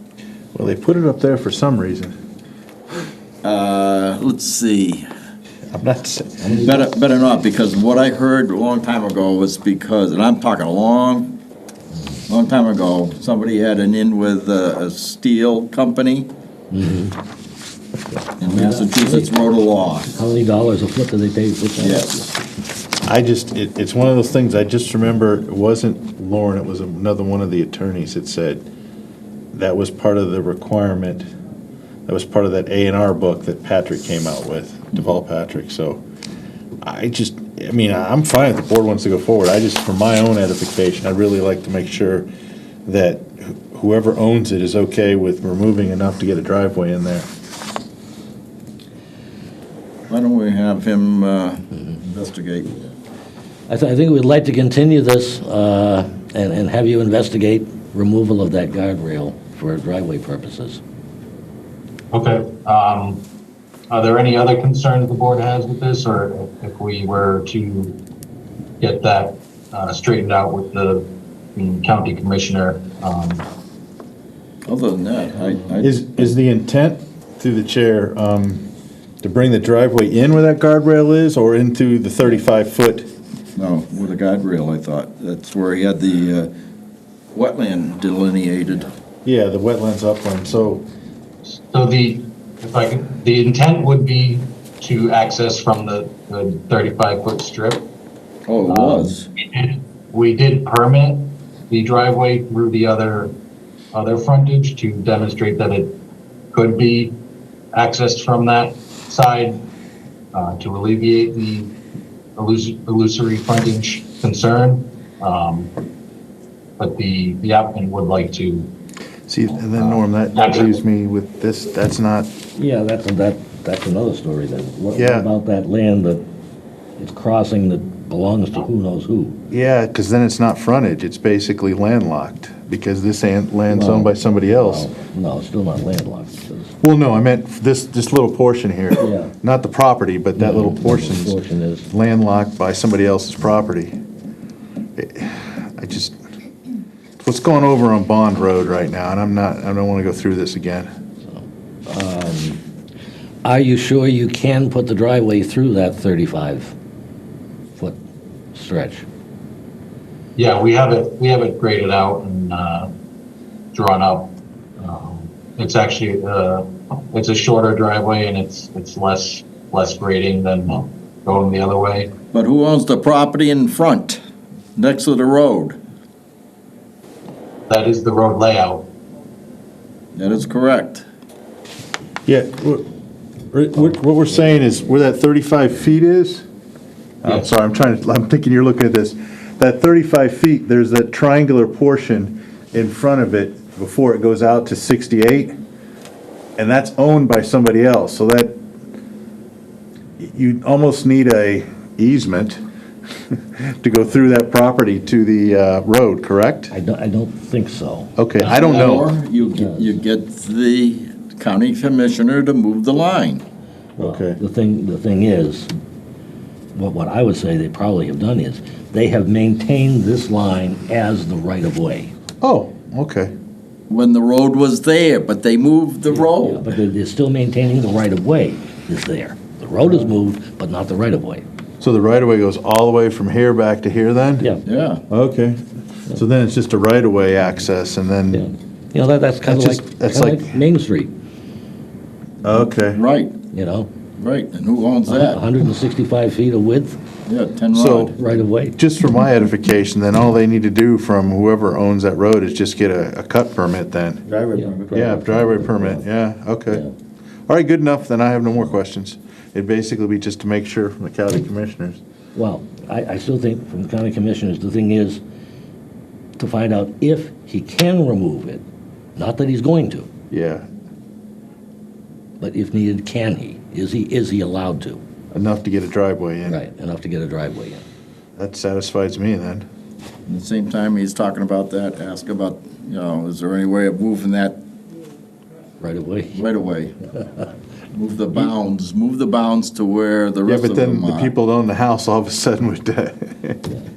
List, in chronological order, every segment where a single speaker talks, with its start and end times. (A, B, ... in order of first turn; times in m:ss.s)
0:00.5-0:02.1 A
0:03.4-0:05.1 B
0:05.7-0:06.6 A
0:06.4-0:06.7 C
0:06.6-0:11.4 B
0:12.3-0:16.3 B
0:16.7-0:17.2 C
0:18.4-0:20.1 B
0:18.4-0:19.3 C
0:20.1-0:22.3 C
0:21.8-0:22.2 B
0:23.0-0:28.6 A
0:29.5-0:31.2 A
0:32.0-0:36.0 A
0:36.8-0:42.3 A
0:42.8-0:47.3 A
0:50.1-0:52.8 B
0:53.7-1:00.8 C
1:02.1-1:03.2 D
1:03.9-1:08.0 D
1:08.8-1:13.4 D
1:14.6-1:16.2 B
1:15.8-1:18.7 A
1:19.2-1:23.1 A
1:23.6-1:26.5 B
1:27.3-1:28.9 B
1:29.2-1:30.8 A
1:31.5-1:37.8 D
1:38.5-1:39.3 B
1:38.7-1:43.3 D
1:43.9-1:46.0 D
1:46.5-1:47.2 D
1:47.7-1:49.6 D
1:50.3-1:51.7 D
1:52.4-1:55.7 D
1:56.8-1:58.7 D
1:59.3-2:02.3 A
2:00.3-2:00.7 D
2:02.6-2:06.2 C
2:04.9-2:05.3 A
2:07.0-2:09.4 C
2:09.5-2:14.9 A
2:13.7-2:16.7 C
2:16.8-2:21.4 A
2:19.0-2:19.3 C
2:20.4-2:21.9 C
2:21.9-2:24.0 A
2:25.0-2:26.2 A
2:27.2-2:30.9 A
2:31.2-2:32.6 C
2:33.4-2:36.7 C
2:38.5-2:39.0 C
2:40.4-2:42.9 D
2:43.7-2:52.1 D
2:52.3-2:54.2 B
2:54.8-2:55.8 B
2:57.7-2:58.9 D
3:00.2-3:01.0 B
3:02.2-3:02.8 A
3:03.5-3:06.4 A
3:07.2-3:15.5 A
3:07.2-3:07.5 D
3:16.6-3:18.6 A
3:20.2-3:22.6 A
3:23.3-3:26.7 A
3:26.7-3:28.2 C
3:28.2-3:29.1 A
3:28.4-3:33.4 B
3:29.4-3:30.0 C
3:34.0-3:34.4 A
3:34.0-3:35.7 C
3:36.7-3:42.1 C
3:42.4-3:43.3 A
3:43.9-3:46.8 B
3:46.2-3:51.4 C
3:51.8-3:54.5 A
3:54.6-3:55.0 B
3:55.1-3:55.6 A
3:56.1-3:58.5 A
3:58.3-4:01.1 C
3:59.4-4:00.5 A
4:02.4-4:03.0 A
4:02.9-4:03.4 B
4:03.5-4:03.9 C
4:04.2-4:05.4 B
4:05.1-4:07.0 C
4:07.2-4:08.2 B
4:07.7-4:08.2 A
4:08.2-4:08.8 C
4:08.8-4:14.2 A
4:14.3-4:14.9 B
4:14.5-4:16.0 C
4:14.9-4:16.8 A
4:17.5-4:22.0 A
4:22.3-4:25.2 C
4:26.4-4:28.6 C
4:29.2-4:30.1 C
4:30.3-4:30.6 A
4:32.4-4:35.0 C
4:35.3-4:36.6 A
4:36.4-4:37.8 C
4:38.4-4:39.6 A
4:40.3-4:44.6 B
4:45.8-4:46.4 C
4:46.3-4:47.0 B
4:47.9-4:51.3 B
4:50.4-4:53.7 A